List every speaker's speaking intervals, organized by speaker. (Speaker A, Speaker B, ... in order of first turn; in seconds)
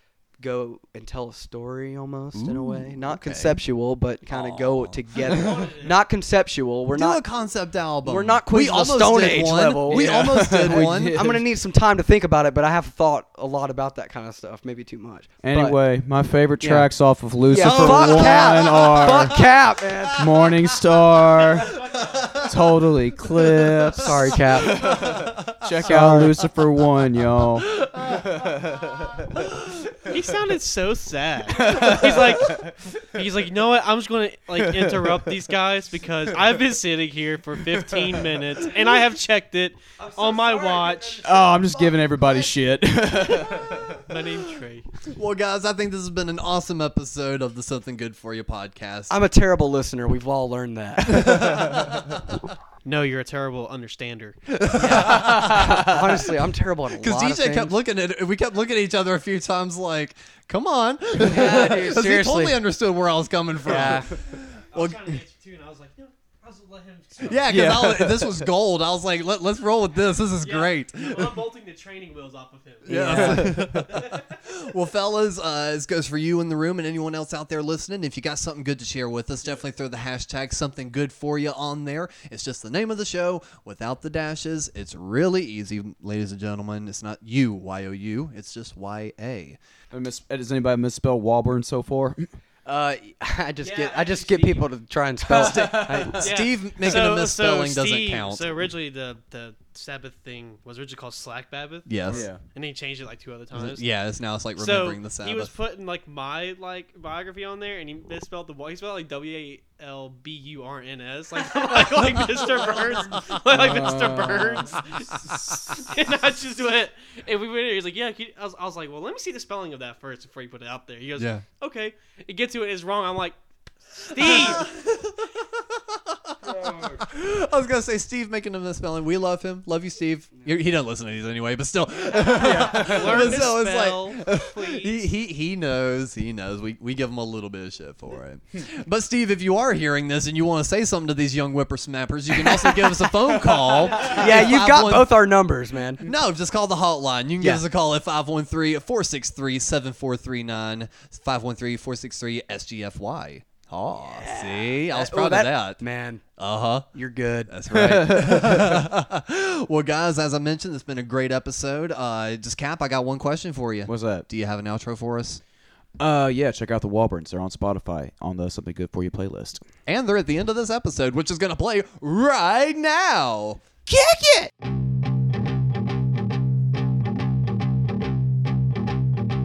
Speaker A: 0.4-7.2, 8.0-15.8, 16.6-16.9, 17.5-20.2, 23.9-25.2, 25.8-26.4, 40.0-41.5, 49.1-51.5, 54.7-57.7, 61.2-62.6, 63.6-64.1, 73.0-73.4, 92.6-96.3, 142.4-142.7, 144.0-146.1, 154.0-156.2, 156.9-157.5
Speaker B: 2.3-3.6, 4.3-5.5, 6.9-11.3, 17.6-19.4, 22.1-22.4, 27.7-28.4, 45.0-49.1, 51.1-52.0, 54.5-55.9, 57.0-65.2, 67.2-71.4, 72.9-89.6, 95.4-98.6, 101.8-102.3, 103.5-105.5, 113.5-113.9, 121.2-121.4, 124.2-125.0, 126.5-145.2, 146.0-155.8, 156.4-156.9, 157.5-165.4, 169.9-173.6
Speaker C: 5.1-6.0, 21.3-22.5, 30.0-41.7, 43.3-44.9, 52.8-54.4, 64.7-67.5, 70.4-73.0, 73.7-74.5, 93.6-94.7, 96.2-103.8, 104.5-123.4, 123.9-124.8, 132.2-135.0, 143.8-144.1
Speaker D: 9.9-11.4, 15.4-19.4, 20.2-21.8, 22.4-27.7, 28.4-28.8, 31.5-32.7, 34.6-35.4, 37.7-38.3, 41.2-43.9, 51.6-51.9, 55.1-55.8, 67.5-68.5, 72.8-73.8, 89.9-92.3, 95.3-96.2, 102.1-102.4, 113.5-114.8, 132.4-133.0, 157.7-158.8, 163.8-164.2, 166.0-169.7